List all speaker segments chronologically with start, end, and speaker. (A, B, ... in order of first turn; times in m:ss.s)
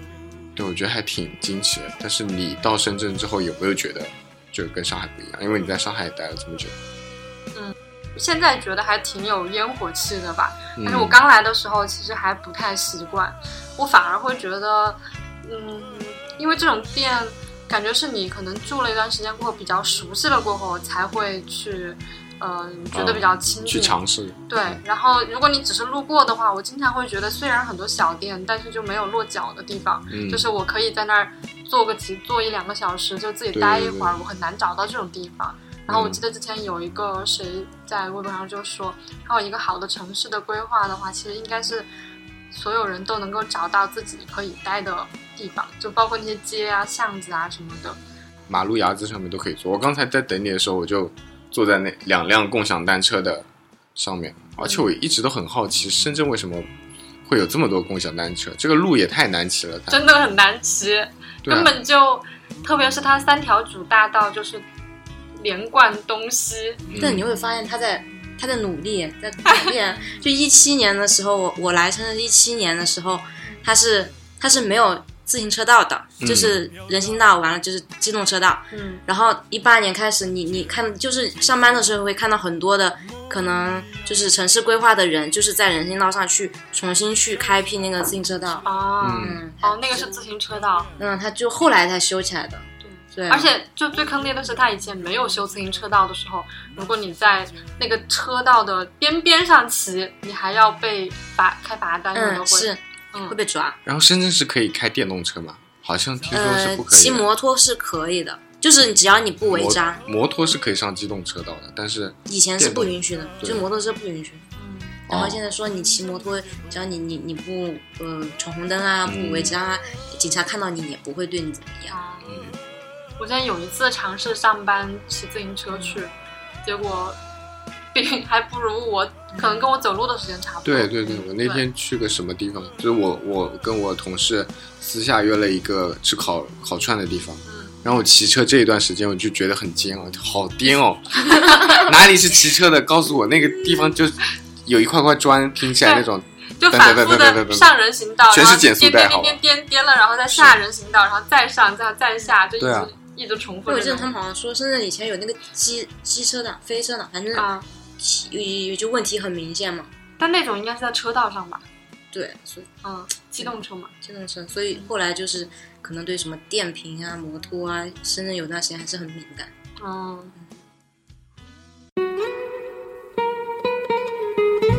0:00.6-0:06.8 A
0:07.6-0:24.0 B
0:10.8-0:11.2 A
0:22.9-0:24.8 A
0:24.5-0:41.9 B
0:30.1-0:30.4 A
0:33.5-0:34.2 A
0:35.9-0:36.2 A
0:42.5-0:48.0 B
0:48.5-0:56.7 A
0:54.6-0:54.9 B
0:57.3-1:00.1 A
0:59.9-1:04.6 B
1:01.4-1:01.7 A
1:05.4-1:06.8 B
1:06.9-1:07.2 A
1:07.0-1:30.1 C
1:16.2-1:16.6 A
1:18.7-1:19.0 B
1:28.7-1:30.9 B
1:29.0-1:29.4 A
1:31.0-1:33.5 C
1:32.8-1:43.4 B
1:42.1-1:43.8 C
1:43.9-1:47.3 A
1:46.3-1:50.0 C
1:49.5-1:53.6 A
1:52.3-1:54.4 C
1:54.6-1:55.0 B
1:55.1-2:01.9 C
1:55.1-1:55.4 A
1:59.0-1:59.6 A
2:01.9-2:02.4 B
2:02.3-2:02.6 A
2:03.2-2:06.1 B
2:06.6-2:07.2 B
2:07.9-2:11.6 B
2:09.4-2:09.7 C
2:10.7-2:27.7 A
2:17.5-2:17.8 B
2:26.6-2:34.1 B
2:28.3-2:29.4 A
2:30.3-2:30.6 A
2:32.6-2:32.9 A
2:33.7-2:39.9 C
2:37.3-2:37.7 B
2:40.2-2:41.6 B
2:42.1-2:42.7 C
2:42.8-2:43.9 B
2:43.4-2:49.5 C
2:49.8-2:50.3 B